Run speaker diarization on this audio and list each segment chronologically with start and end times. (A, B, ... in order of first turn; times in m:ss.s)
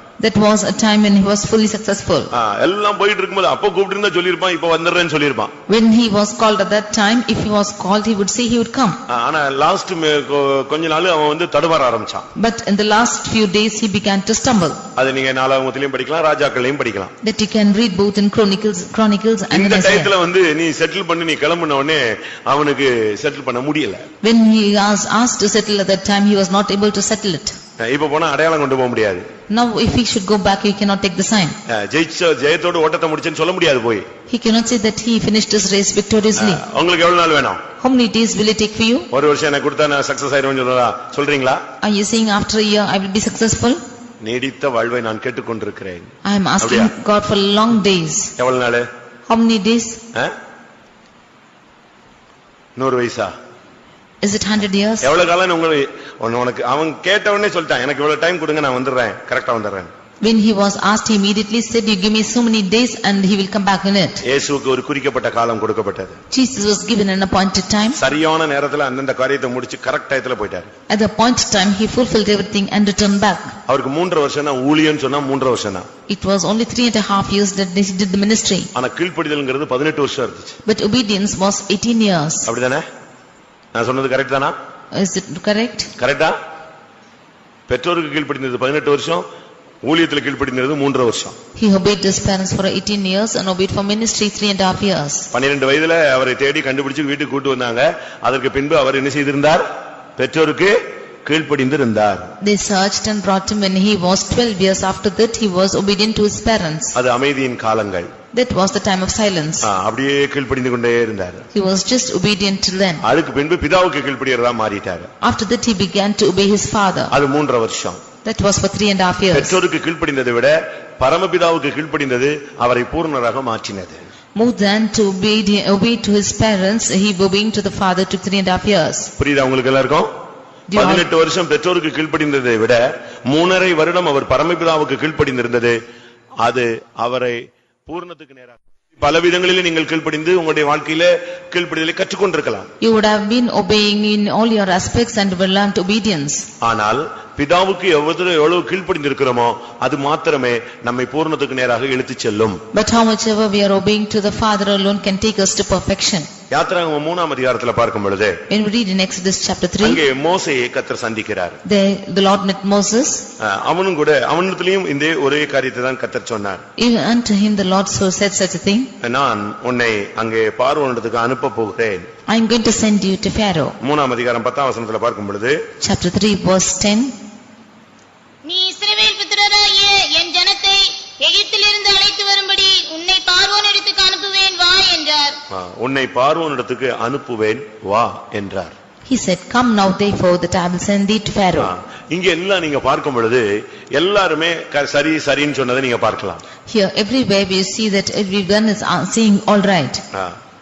0:00.2-0:02.3 A
0:02.3-0:05.5 B
0:05.7-0:09.0 A
0:09.1-0:12.2 B
0:12.4-0:14.8 A
0:15.0-0:17.1 B
0:17.2-0:20.1 A
0:19.5-0:24.1 B
0:24.2-0:27.6 A
0:27.8-0:29.3 B
0:29.5-0:31.6 A
0:31.7-0:34.0 B
0:34.3-0:36.6 A
0:36.4-0:37.6 B
0:37.8-0:39.1 A
0:39.1-0:41.6 B
0:41.8-0:43.8 A
0:44.2-0:46.9 B
0:46.2-0:48.3 A
0:48.4-0:48.9 B
0:49.3-0:50.0 A
0:52.8-0:53.3 B
0:54.2-0:55.1 A
0:55.0-0:59.9 B
1:00.2-1:04.2 A
1:04.2-1:06.2 B
1:06.3-1:08.0 A
1:07.9-1:10.7 B
1:10.9-1:13.5 A
1:13.7-1:15.9 B
1:16.1-1:18.7 A
1:18.7-1:20.6 B
1:20.6-1:22.5 A
1:22.4-1:22.8 B
1:23.7-1:24.5 B
1:24.9-1:25.9 A
1:26.0-1:26.4 B
1:27.7-1:29.2 B
1:29.8-1:31.4 B
1:31.6-1:35.3 A
1:35.3-1:39.6 B
1:40.2-1:42.3 B
1:42.4-1:47.0 A
1:46.9-1:48.1 B
1:48.3-1:49.7 A
1:49.6-1:51.5 B
1:51.5-1:53.0 A
1:53.0-1:55.1 B
1:55.2-1:57.1 A
1:57.1-1:58.0 B
1:58.2-1:59.6 A
1:59.3-2:04.0 B
2:04.4-2:09.1 A
2:09.2-2:10.1 B
2:10.7-2:11.0 A
2:10.7-2:15.8 B
2:16.4-2:22.7 B
2:22.8-2:26.5 A
2:26.6-2:32.6 B
2:32.7-2:36.3 A
2:36.5-2:38.4 B
2:38.5-2:40.0 A
2:39.8-2:41.6 B
2:41.6-2:43.2 A
2:43.4-2:46.6 B
2:46.8-2:48.9 A
2:49.0-2:52.1 B
2:52.3-2:53.8 A
2:53.8-2:55.6 B
2:55.8-2:57.1 A
2:58.4-3:05.4 C
3:05.5-3:08.7 B
3:09.1-3:11.7 A
3:11.6-3:16.4 B
3:16.7-3:20.0 A